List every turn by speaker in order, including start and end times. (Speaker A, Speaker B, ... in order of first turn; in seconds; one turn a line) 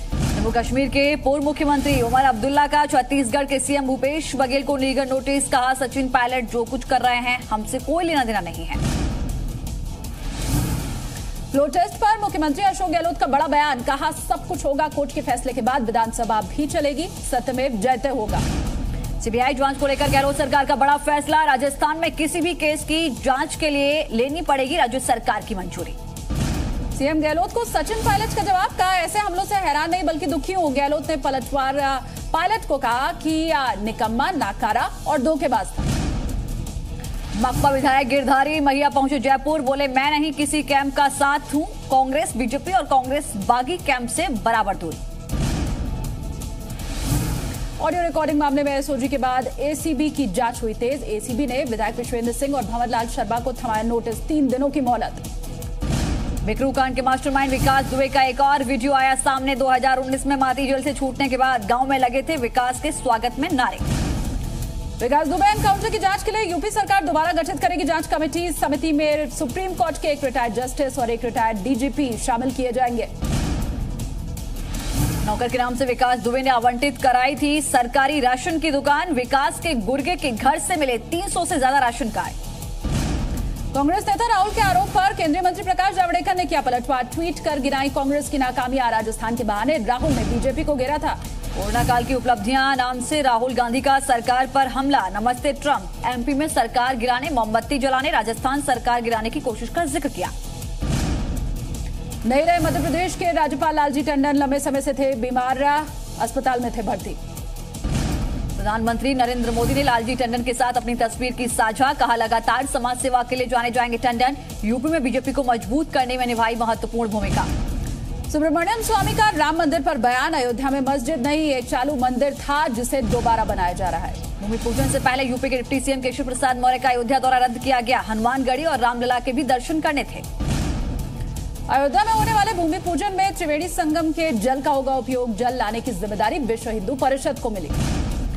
Speaker A: 0.3-8.8
Speaker B: 11.5-18.4
Speaker A: 19.2-25.9
Speaker B: 26.9-35.9
Speaker A: 37.4-45.0
Speaker B: 47.8-55.2
Speaker A: 56.4-63.8
Speaker B: 65.0-73.1
Speaker A: 75.2-82.3
Speaker B: 83.7-91.2
Speaker A: 91.5-100.3
Speaker B: 102.2-107.2
Speaker A: 108.6-117.5
Speaker B: 118.3-124.2
Speaker A: 124.4-130.2
Speaker B: 131.7-137.8